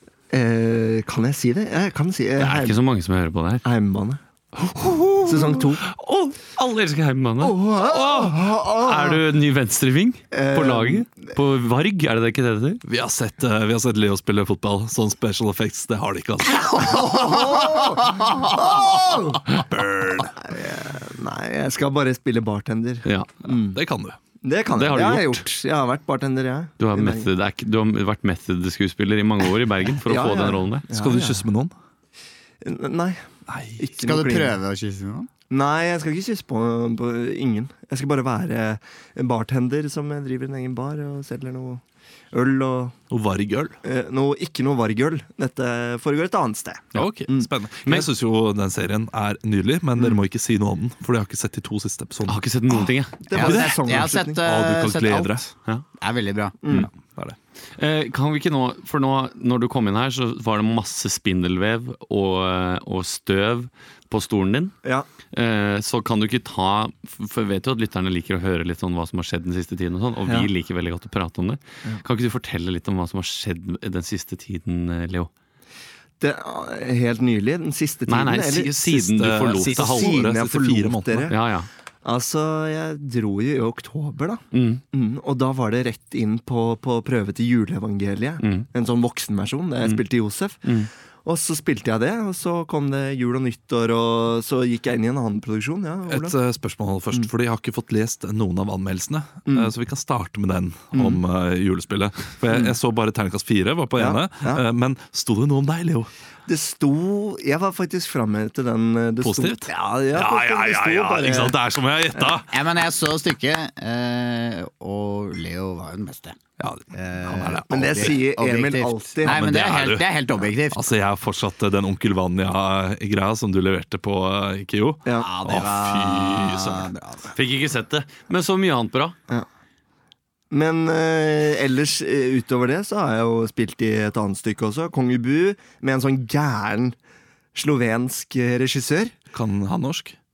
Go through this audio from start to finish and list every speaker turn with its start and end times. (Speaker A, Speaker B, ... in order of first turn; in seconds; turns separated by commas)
Speaker A: 0.3-2.8, Speaker B: 2.4-3.6, Speaker A: 3.6-4.2, Speaker B: 4.7-12.8, Speaker A: 5.2-5.8, Speaker A: 7.4-9.2, Speaker A: 10.3-11.1, Speaker C: 12.9-17.1, Speaker A: 16.7-19.4, Speaker C: 19.5-20.3, Speaker A: 20.4-23.8, Speaker C: 23.7-24.2, Speaker A: 24.4-27.3, Speaker B: 24.8-25.4, Speaker B: 26.8-30.8, Speaker A: 30.1-31.4, Speaker C: 30.9-31.7, Speaker A: 32.6-33.2, Speaker C: 33.5-33.9, Speaker A: 33.8-34.6, Speaker D: 34.0-35.3, Speaker A: 35.5-43.0, Speaker C: 43.1-43.8, Speaker A: 43.8-47.5, Speaker C: 47.0-52.4, Speaker B: 52.3-53.2, Speaker A: 53.2-54.4, Speaker D: 53.3-56.6, Speaker C: 53.3-55.5, Speaker A: 56.6-56.9, Speaker C: 56.7-57.4, Speaker B: 57.8-64.7, Speaker B: 65.3-75.3, Speaker A: 76.2-78.7, Speaker B: 78.1-80.2, Speaker C: 78.8-81.3, Speaker A: 79.5-81.4, Speaker B: 81.3-81.7, Speaker A: 82.0-90.7, Speaker B: 84.5-84.8, Speaker B: 88.4-88.7, Speaker A: 91.2-96.4, Speaker C: 96.1-106.1, Speaker A: 99.5-99.7, Speaker A: 102.5-102.8, Speaker A: 104.0-104.6, Speaker A: 106.5-111.6, Speaker C: 109.2-112.5, Speaker A: 112.2-112.4, Speaker D: 112.5-116.4, Speaker C: 116.6-118.2, Speaker D: 116.9-120.8, Speaker A: 117.7-119.5, Speaker C: 119.2-120.1, Speaker C: 120.7-126.9, Speaker A: 125.0-125.3, Speaker D: 125.2-127.3, Speaker B: 127.3-129.2, Speaker A: 130.5-137.0, Speaker A: 137.5-139.2, Speaker C: 139.3-140.2